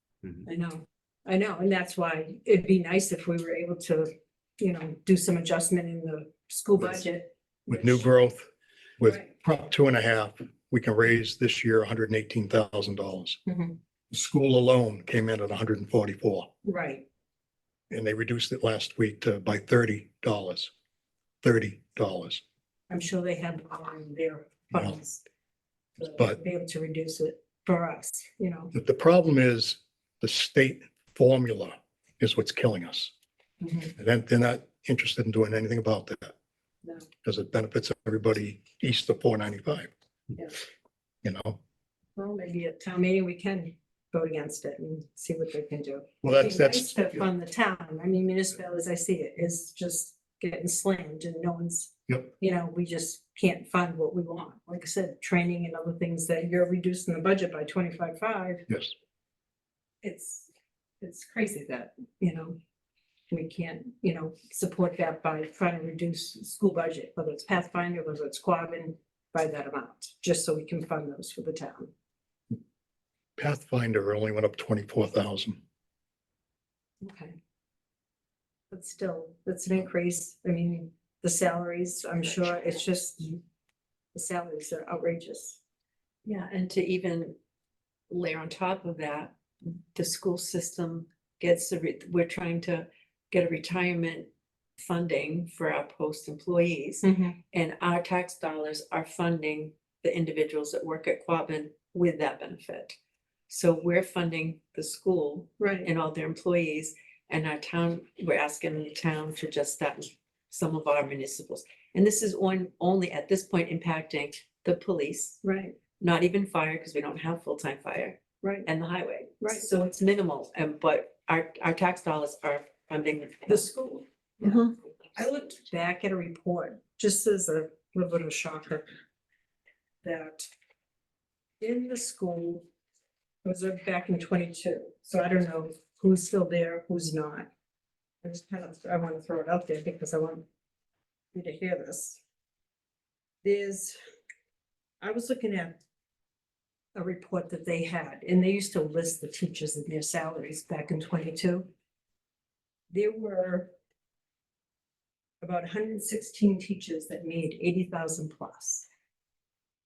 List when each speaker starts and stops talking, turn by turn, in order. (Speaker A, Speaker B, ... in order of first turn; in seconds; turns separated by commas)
Speaker A: 0.5-8.0, Speaker B: 7.7-13.4, Speaker A: 13.5-13.8, Speaker B: 14.1-16.5, Speaker A: 16.6-17.1, Speaker B: 17.9-20.7, Speaker B: 21.4-22.4, Speaker A: 22.9-25.2, Speaker A: 26.0-28.7, Speaker B: 26.1-26.4, Speaker B: 28.7-33.1, Speaker A: 33.6-33.9, Speaker B: 34.0-36.4, Speaker B: 37.2-39.9, Speaker B: 41.2-41.6, Speaker A: 42.2-58.6, Speaker B: 46.2-47.3, Speaker A: 60.0-62.6, Speaker A: 63.3-71.9, Speaker B: 73.4-75.6, Speaker A: 77.0-77.4, Speaker A: 78.7-83.4, Speaker A: 84.1-85.6, Speaker C: 86.2-87.4, Speaker C: 88.1-103.0, Speaker A: 97.0-97.4, Speaker C: 103.5-115.4, Speaker A: 105.6-105.9, Speaker A: 115.4-115.8, Speaker C: 116.0-123.7, Speaker A: 118.4-118.7, Speaker A: 119.4-119.7, Speaker A: 123.5-124.6, Speaker A: 125.2-128.9, Speaker A: 130.0-130.5, Speaker A: 131.6-132.7, Speaker A: 133.4-137.5, Speaker A: 138.2-140.4, Speaker A: 141.3-142.2, Speaker A: 143.4-144.0, Speaker A: 145.0-145.8, Speaker A: 146.9-151.7, Speaker A: 152.9-153.7, Speaker A: 155.4-158.9